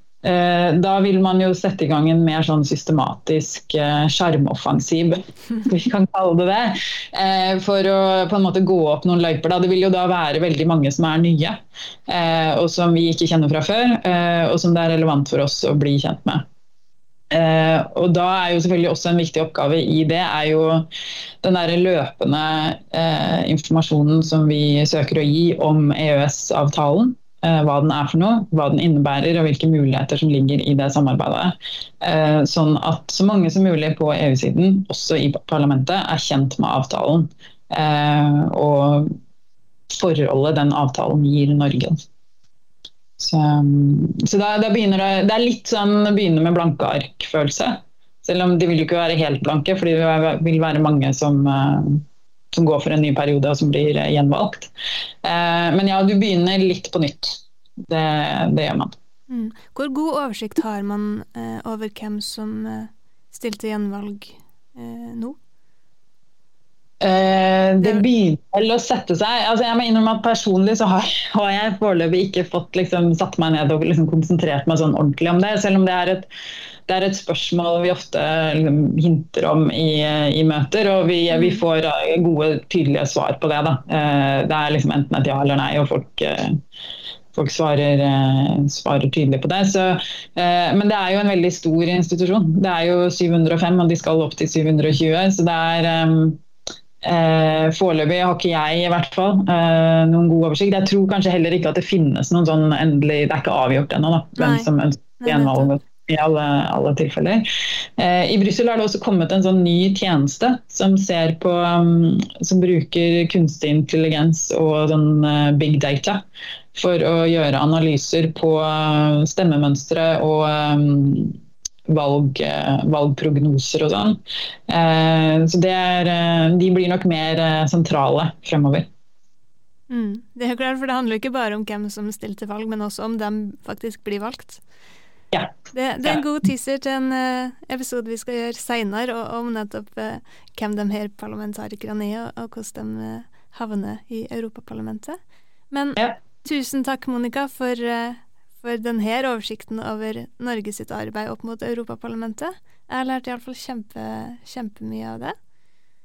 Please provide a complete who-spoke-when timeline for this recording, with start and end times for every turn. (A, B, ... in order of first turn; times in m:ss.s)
0:00.2-0:16.4 A
0:17.3-0:20.9 A
0:21.4-0:39.2 A
0:39.9-0:42.0 A
0:43.2-0:54.7 A
0:55.2-0:58.9 A
0:59.3-1:05.4 B
1:07.0-1:16.3 A
1:07.8-1:08.0 B
1:16.9-1:26.6 A
1:21.3-1:21.6 B
1:27.3-1:36.4 A
1:37.0-1:47.4 A
1:44.4-1:45.7 B
1:48.0-1:56.2 A
1:56.7-2:01.4 A
2:01.9-2:08.9 A
2:09.9-2:14.6 B
2:15.7-2:25.2 B
2:25.7-2:35.4 B